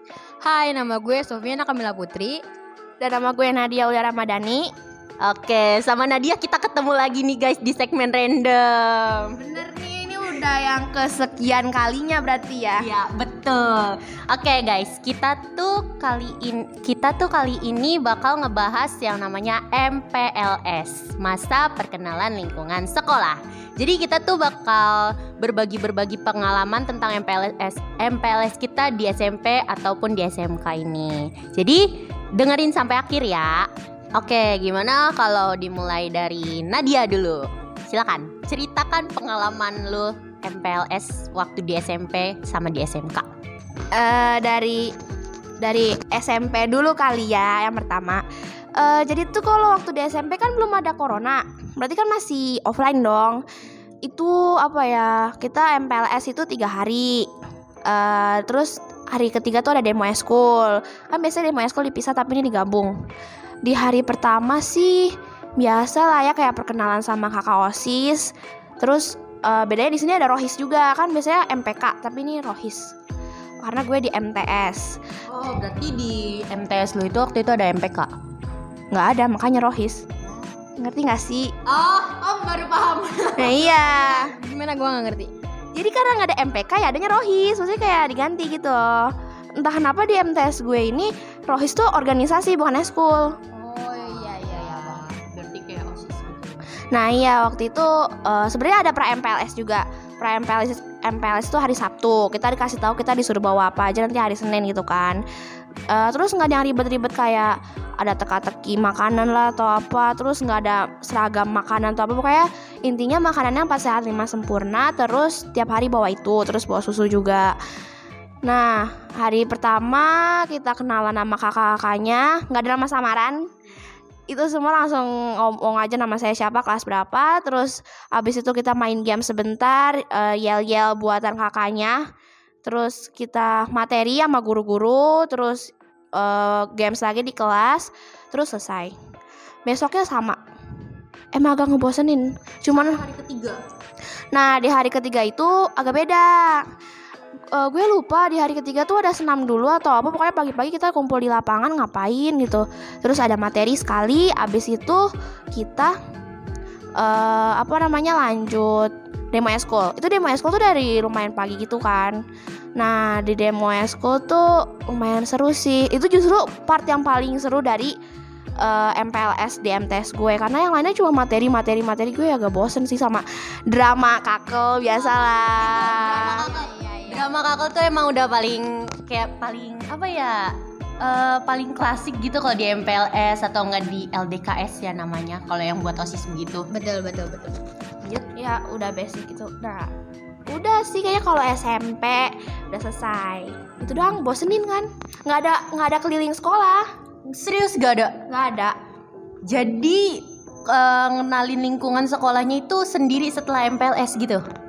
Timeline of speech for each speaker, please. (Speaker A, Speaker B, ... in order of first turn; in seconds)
Speaker A: 0.4-2.4, 84.1-85.3, 93.5-95.0, 175.1-177.3, 186.7-187.6
Speaker B: 3.0-4.7, 9.4-12.9, 43.9-44.9, 45.6-48.2, 48.8-53.4, 54.0-57.3, 57.9-63.0, 63.6-72.9, 73.6-75.0, 78.9-80.0, 80.8-81.5, 83.3-84.3, 85.7-93.4, 96.9-105.2, 105.9-117.6, 118.4-123.4, 124.3-132.0, 132.6-138.9, 139.7-140.4, 141.3-143.0, 144.3-146.7, 147.6-155.9, 157.0-162.2, 162.8-168.0, 168.6-176.5, 188.3-189.9, 190.5-196.8, 198.3-198.8
Speaker C: 5.2-9.4, 12.8-31.8, 32.4-43.3, 75.3-78.1, 80.2-80.5, 81.7-83.9, 93.9-96.7, 142.7-143.6, 176.2-186.7, 197.3-198.2, 199.4-204.4